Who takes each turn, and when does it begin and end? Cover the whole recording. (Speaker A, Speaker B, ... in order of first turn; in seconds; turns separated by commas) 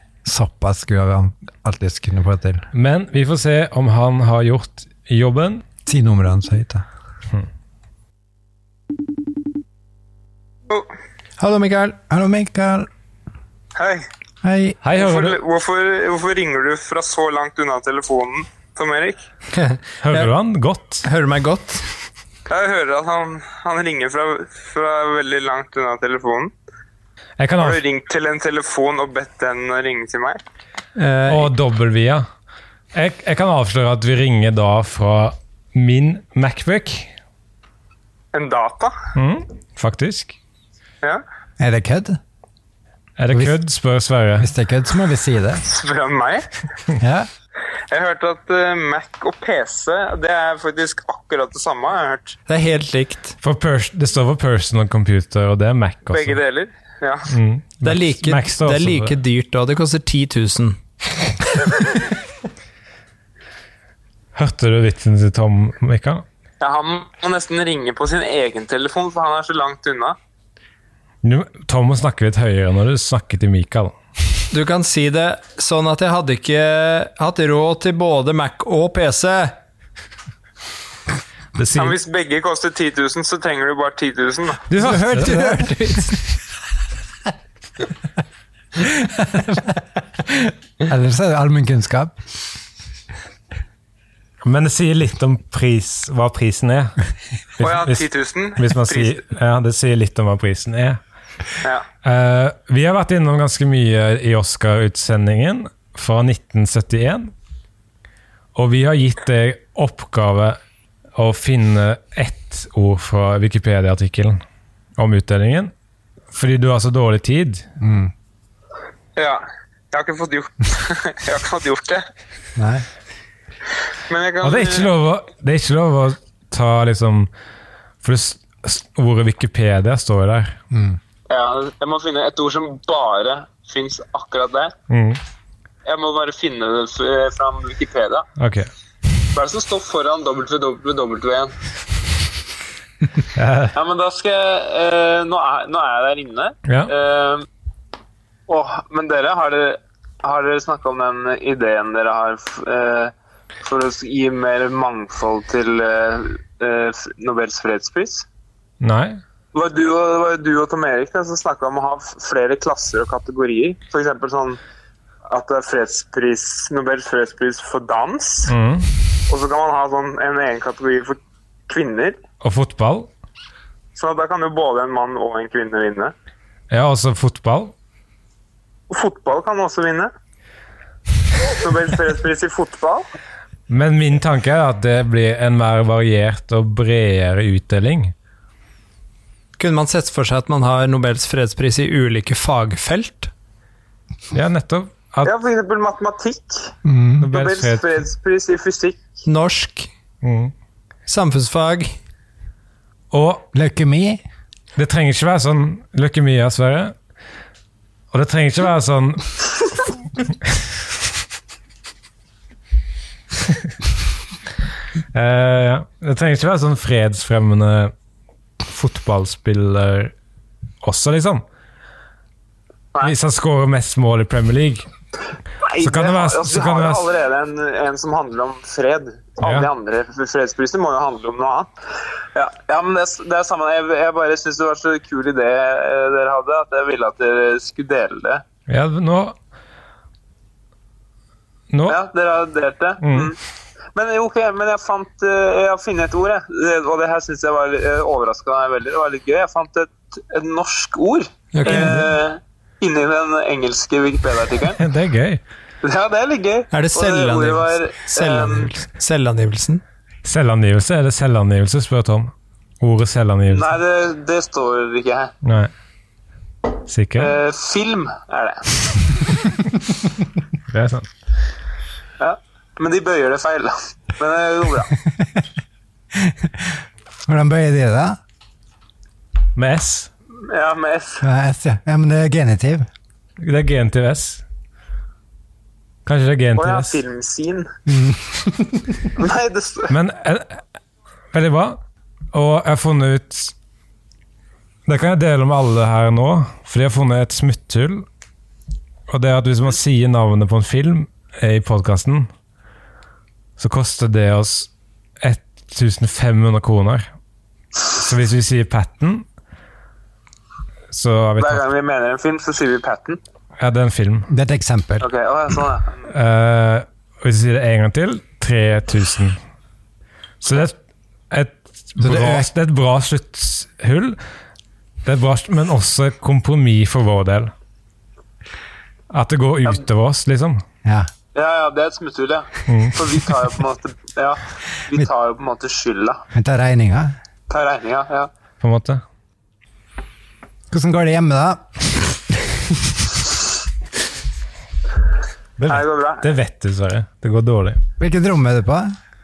Speaker A: 0.2-2.7, Speaker B: 2.7-5.6, Speaker A: 5.9-6.9, Speaker C: 11.4-12.0, Speaker A: 12.1-12.9, Speaker D: 13.8-14.1, Speaker A: 14.4-14.8, Speaker B: 14.8-15.4, Speaker D: 14.9-19.3, Speaker C: 19.5-20.3, Speaker B: 20.0-21.1, Speaker C: 21.0-21.9, Speaker D: 22.5-26.5, Speaker B: 27.4-27.8, Speaker D: 27.6-30.4, Speaker C: 31.0-31.5, Speaker B: 31.3-32.3, Speaker B: 32.9-37.1, Speaker D: 38.3-39.0, Speaker B: 39.1-40.4, Speaker A: 41.6-42.2, Speaker B: 43.2-44.5, Speaker A: 44.4-45.6, Speaker D: 45.6-46.5, Speaker A: 47.0-47.3, Speaker D: 47.9-52.4, Speaker C: 52.5-53.4, Speaker B: 53.4-56.4, Speaker D: 56.1-57.3, Speaker B: 57.3-59.2, Speaker C: 57.8-60.8, Speaker B: 64.3-66.2, Speaker D: 66.6-70.2, Speaker B: 71.2-74.0, Speaker C: 74.5-79.6, Speaker B: 81.5-82.0, Speaker D: 81.8-84.7, Speaker B: 84.7-85.7, Speaker A: 84.8-86.2, Speaker C: 85.2-86.1, Speaker A: 88.8-92.2, Speaker B: 94.4-97.0, Speaker B: 97.6-101.0, Speaker D: 97.6-99.2, Speaker B: 102.0-107.3, Speaker B: 108.5-110.6, Speaker B: 111.2-114.4, Speaker B: 115.0-115.7, Speaker B: 116.3-117.7, Speaker A: 117.8-118.1, Speaker D: 119.2-122.1, Speaker A: 122.6-122.9, Speaker D: 124.1-124.9, Speaker B: 124.4-127.3, Speaker B: 128.0-130.6, Speaker A: 130.7-131.0, Speaker D: 131.3-134.7, Speaker B: 134.9-135.2, Speaker D: 135.8-138.3, Speaker B: 138.4-138.7, Speaker D: 139.3-141.6, Speaker B: 143.3-143.8, Speaker D: 143.7-147.5, Speaker B: 146.7-146.9, Speaker D: 148.5-158.3, Speaker B: 158.8-159.2, Speaker D: 159.5-164.6, Speaker D: 165.3-168.5, Speaker B: 168.5-168.9, Speaker D: 169.3-172.2, Speaker B: 172.4-173.1, Speaker D: 173.9-176.1, Speaker B: 176.7-177.7, Speaker D: 178.9-180.1, Speaker D: 181.5-183.1, Speaker B: 183.7-188.1, Speaker C: 189.6-193.3, Speaker B: 194.3-195.3, Speaker D: 195.2-196.7, Speaker A: 196.8-197.3, Speaker B: 197.2-198.0, Speaker D: 197.3-199.0, Speaker C: 199.3-199.9, Speaker B: 200.2-200.5, Speaker C: 201.1-202.0, Speaker B: 203.1-203.5, Speaker A: 203.5-204.2, Speaker B: 204.8-206.9, Speaker B: 208.1-209.8, Speaker B: 210.3-210.7, Speaker B: 215.1-217.9, Speaker B: 218.7-220.1, Speaker B: 220.8-221.4, Speaker B: 223.0-224.9, Speaker D: 225.6-231.7, Speaker B: 225.8-227.1, Speaker B: 229.4-229.7, Speaker D: 232.3-238.4, Speaker B: 238.7-239.4, Speaker B: 241.7-242.0, Speaker D: 241.9-243.4, Speaker B: 243.0-243.3, Speaker D: 243.9-254.8, Speaker C: 251.5-252.1, Speaker B: 251.7-252.1, Speaker B: 254.8-255.4, Speaker D: 255.8-258.7, Speaker C: 256.7-259.8, Speaker B: 260.2-263.8, Speaker D: 263.5-265.3, Speaker B: 265.4-265.7, Speaker B: 266.9-267.4, Speaker D: 267.2-269.0, Speaker B: 270.7-271.1, Speaker D: 272.2-274.9, Speaker A: 275.1-275.4, Speaker A: 276.1-278.2, Speaker B: 279.6-280.1, Speaker D: 280.4-281.2, Speaker A: 281.2-282.9, Speaker B: 283.4-284.4, Speaker B: 286.1-287.0, Speaker D: 286.6-287.7, Speaker A: 287.9-289.0, Speaker D: 289.2-289.9, Speaker B: 289.9-290.6, Speaker B: 291.3-291.8, Speaker B: 292.3-293.5, Speaker B: 294.9-298.1, Speaker B: 299.1-302.3, Speaker B: 303.6-304.7, Speaker B: 305.2-307.1, Speaker B: 307.9-309.3, Speaker B: 310.9-311.6, Speaker D: 311.4-313.2, Speaker B: 313.6-314.3, Speaker A: 314.3-315.1, Speaker D: 315.0-316.1, Speaker B: 316.1-319.4, Speaker B: 320.4-320.8, Speaker B: 321.3-324.2, Speaker A: 322.0-322.5, Speaker B: 325.1-327.5, Speaker B: 329.1-330.6, Speaker A: 330.9-331.1, Speaker D: 331.3-336.2, Speaker B: 332.7-333.0, Speaker A: 336.3-337.1, Speaker D: 337.5-338.3, Speaker B: 338.6-339.0, Speaker A: 340.7-342.9, Speaker B: 345.6-347.8, Speaker D: 345.7-346.3, Speaker A: 348.0-348.9